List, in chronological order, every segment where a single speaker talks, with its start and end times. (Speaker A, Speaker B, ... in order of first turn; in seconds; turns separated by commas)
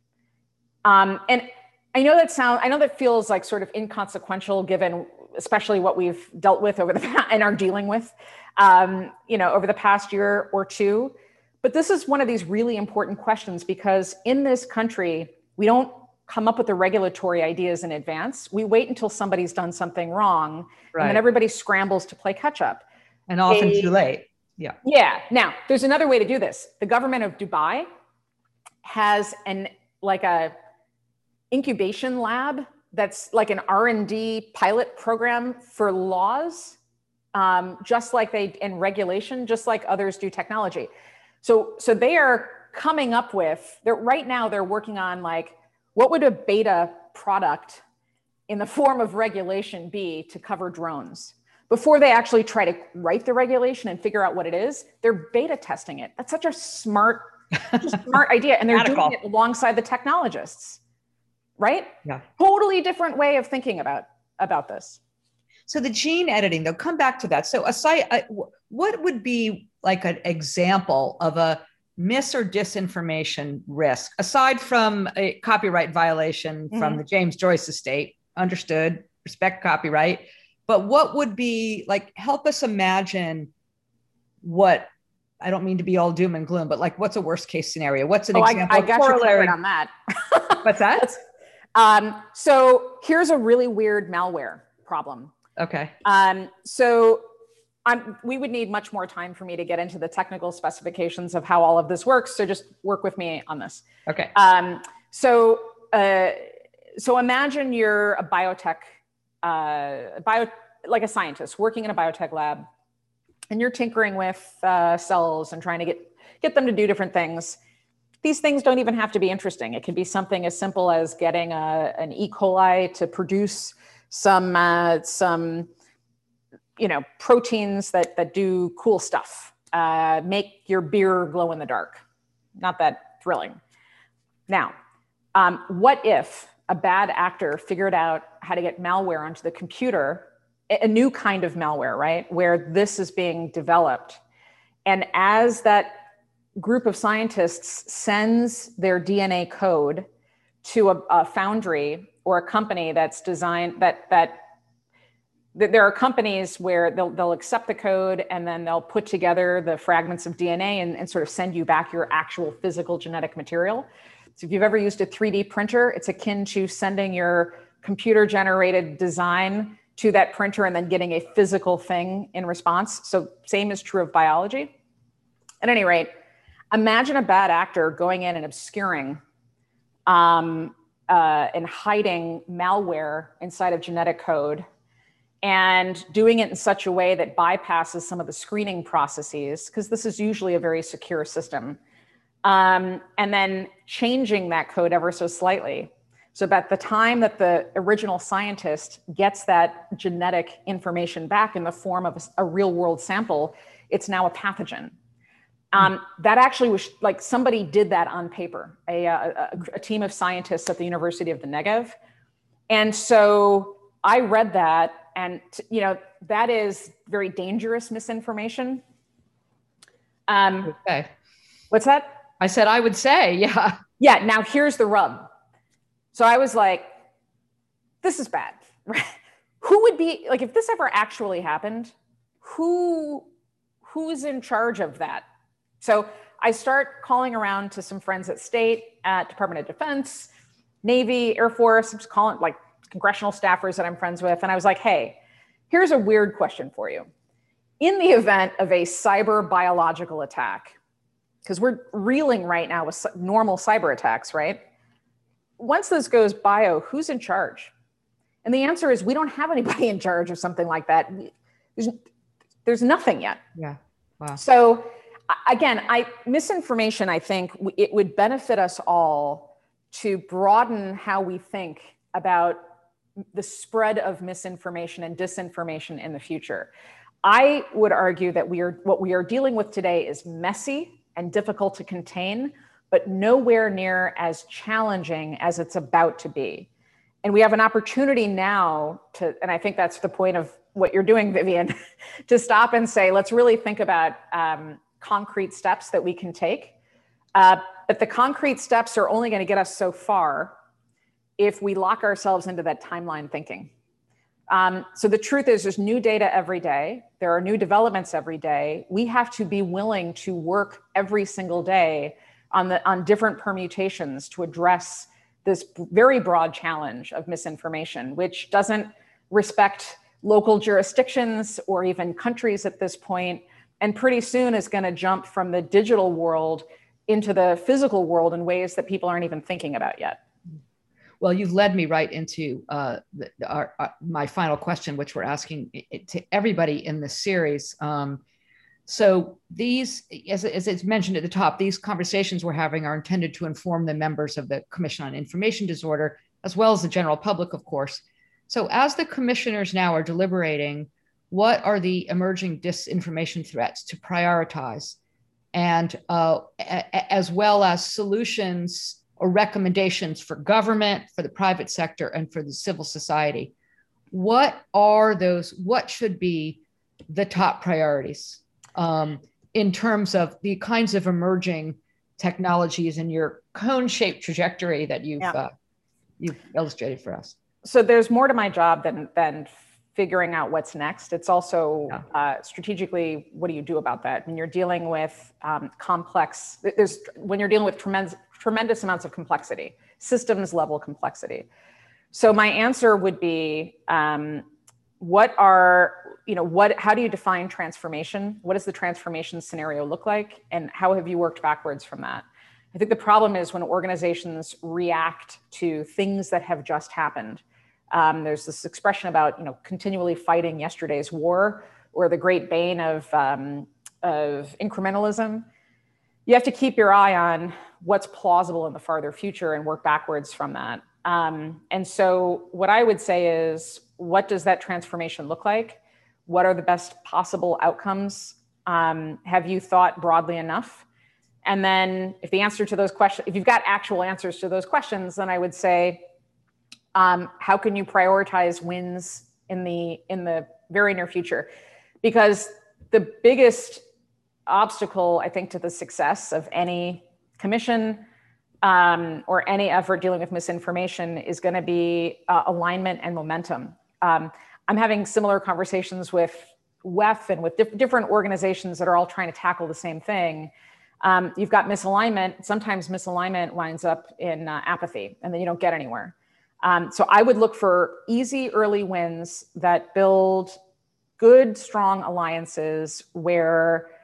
Speaker A: 0.8-22.8, Speaker B: 20.9-21.2, Speaker B: 23.3-24.8, Speaker A: 23.5-23.9, Speaker A: 24.8-27.9, Speaker A: 28.8-30.5, Speaker A: 31.5-36.8, Speaker A: 37.3-40.9, Speaker A: 41.4-47.8, Speaker A: 48.5-60.8, Speaker B: 58.7-59.1, Speaker A: 61.6-65.0, Speaker B: 65.7-83.5, Speaker A: 76.7-77.0, Speaker B: 84.4-84.9, Speaker B: 85.4-89.5, Speaker A: 88.3-91.2, Speaker B: 90.6-91.1, Speaker A: 91.7-95.3, Speaker B: 95.5-95.9, Speaker A: 96.0-97.2, Speaker A: 97.8-103.8, Speaker B: 104.0-104.3, Speaker A: 104.3-108.9, Speaker A: 109.4-112.7, Speaker A: 113.5-117.6, Speaker A: 118.2-125.7, Speaker A: 126.8-132.0, Speaker A: 132.6-133.6, Speaker A: 134.5-134.7, Speaker A: 135.3-144.2, Speaker A: 144.8-146.0, Speaker A: 146.6-150.1, Speaker A: 150.6-154.4, Speaker A: 155.5-174.7, Speaker A: 175.6-176.1, Speaker A: 176.7-179.2, Speaker A: 180.1-184.6, Speaker A: 185.4-191.8, Speaker A: 192.4-204.9, Speaker A: 205.7-211.9, Speaker A: 212.7-218.8, Speaker A: 220.3-220.7, Speaker B: 220.6-221.1, Speaker A: 221.7-222.2, Speaker B: 222.4-223.8, Speaker A: 224.0-225.3, Speaker A: 226.1-226.9, Speaker A: 228.0-233.2, Speaker A: 233.8-235.2, Speaker A: 235.8-240.3, Speaker A: 240.8-245.2, Speaker A: 245.7-247.1, Speaker A: 247.8-250.8, Speaker A: 251.4-254.6, Speaker A: 255.6-257.7, Speaker A: 258.4-262.0, Speaker A: 262.6-263.4, Speaker B: 263.6-264.4, Speaker A: 264.4-272.6, Speaker A: 273.3-276.7, Speaker A: 277.2-286.7, Speaker A: 287.2-291.7, Speaker A: 292.3-296.7, Speaker A: 297.3-300.5, Speaker A: 301.4-303.7, Speaker A: 304.5-330.2, Speaker B: 331.2-338.2, Speaker B: 338.9-355.0, Speaker B: 355.5-363.5, Speaker B: 364.1-375.5, Speaker B: 376.2-377.3, Speaker A: 377.6-391.4, Speaker A: 392.1-394.4, Speaker A: 395.0-415.4, Speaker A: 416.2-430.8, Speaker A: 431.4-436.0, Speaker A: 436.9-441.5, Speaker A: 442.0-443.8, Speaker A: 444.5-448.0, Speaker A: 448.6-470.6, Speaker A: 471.2-473.9